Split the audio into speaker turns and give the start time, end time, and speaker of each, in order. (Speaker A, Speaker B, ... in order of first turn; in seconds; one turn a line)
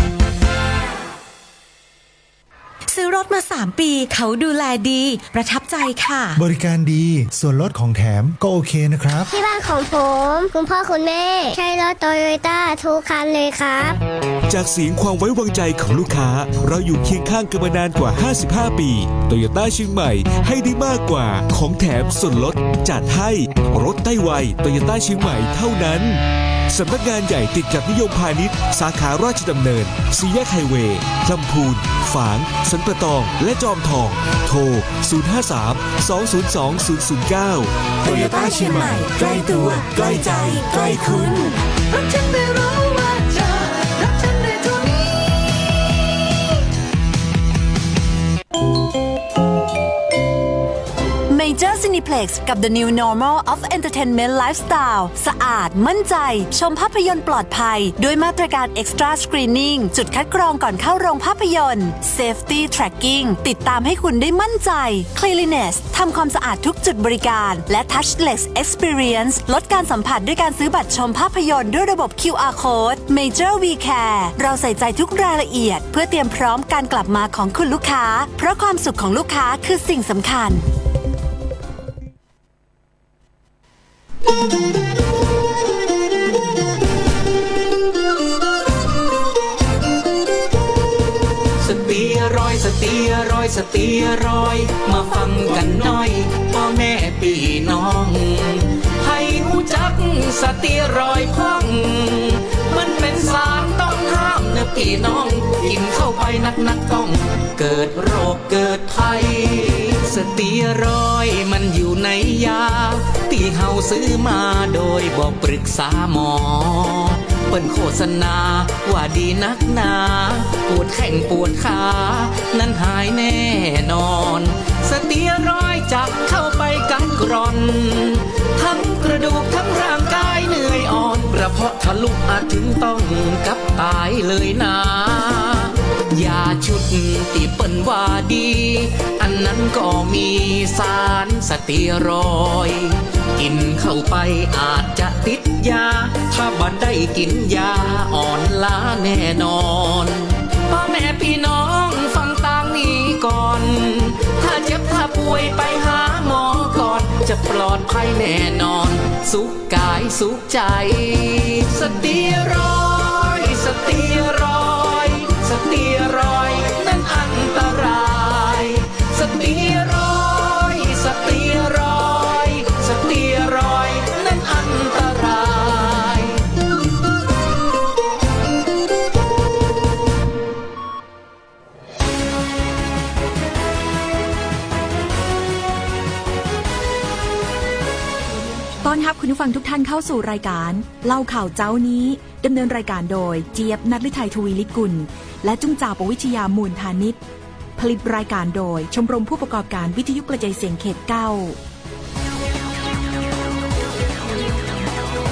Speaker A: 2.9-6.4
Speaker B: 6.3-9.3
Speaker C: 9.3-14.0
Speaker D: 14.5-41.5
Speaker A: 38.1-40.9
Speaker E: 51.3-80.7
Speaker F: 91.6-176.4
Speaker G: 188.8-197.2
Speaker G: 197.8-201.6